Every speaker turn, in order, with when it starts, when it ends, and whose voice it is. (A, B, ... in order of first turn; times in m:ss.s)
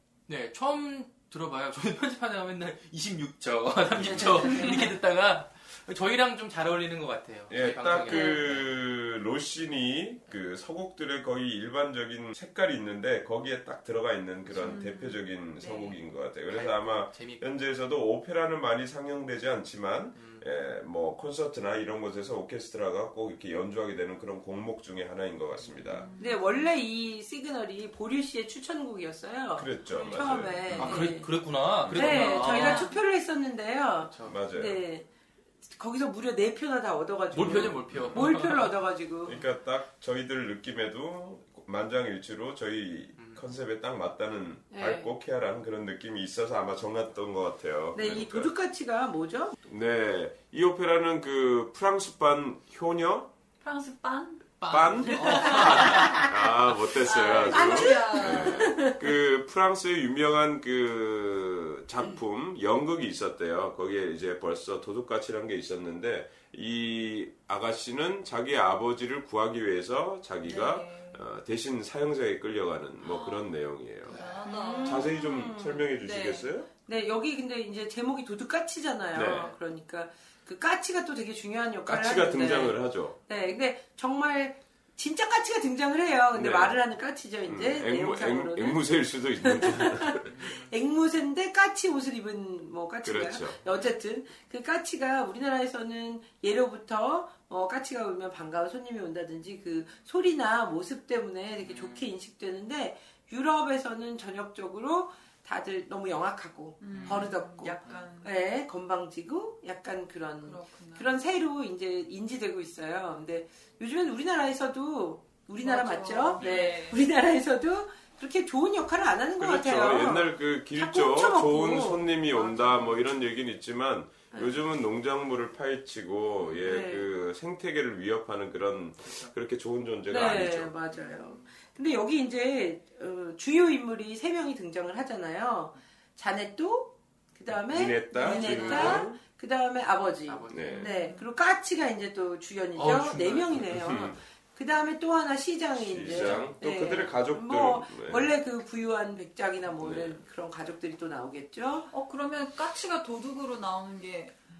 0:00.3-0:08.7 A
0:04.0-0:04.3 B
0:04.4-0:04.8 C
0:07.5-0:26.1 B
0:14.5-0:15.9 C
0:16.5-0:17.5 A
0:20.2-0:20.4 A
0:25.6-0:26.0 A
0:25.9-0:26.6 C
0:26.2-0:31.3 D
0:29.6-0:31.1 B
0:30.2-0:33.0 A
0:31.8-0:32.6 B
0:31.9-0:35.1 D
0:32.2-0:33.0 C
0:34.1-0:34.4 A
0:34.2-0:34.8 B
0:35.6-0:39.4 D
0:37.3-0:38.7 A
0:37.4-0:38.3 B
0:39.2-0:48.5 B
0:44.7-0:45.1 D
0:47.9-0:49.6 D
0:49.6-0:53.3 B
0:53.6-0:56.3 C
0:54.6-0:56.3 A
0:54.7-1:16.7 B
0:56.8-0:58.7 C
0:57.3-0:59.0 D
1:10.4-1:11.2 C
1:13.0-1:13.5 C
1:14.0-1:14.4 A
1:14.1-1:16.5 C
1:14.4-1:15.9 D
1:16.8-2:02.1 D
1:19.1-1:19.5 B
1:21.9-1:23.2 B
1:26.3-1:26.8 B
1:27.4-1:30.3 B
1:30.2-1:30.8 A
1:33.0-1:33.6 B
1:41.6-1:42.1 A
1:46.8-1:48.4 C
1:46.9-1:47.3 A
1:50.4-1:51.1 C
1:55.6-1:57.0 C
1:56.4-1:56.8 A
1:59.4-2:10.7 B
2:02.4-2:03.0 C
2:04.3-2:04.6 D
2:06.6-2:07.1 D
2:10.1-2:31.9 D
2:11.0-2:11.4 C
2:17.7-2:19.2 B
2:18.3-2:18.6 A
2:18.4-2:19.0 C
2:20.3-2:20.8 A
2:20.5-2:20.9 B
2:20.6-2:21.3 C
2:22.8-2:23.6 A
2:23.6-2:24.2 B
2:25.8-2:28.3 B
2:26.0-2:26.5 A
2:29.8-2:30.2 B
2:31.9-2:34.4 C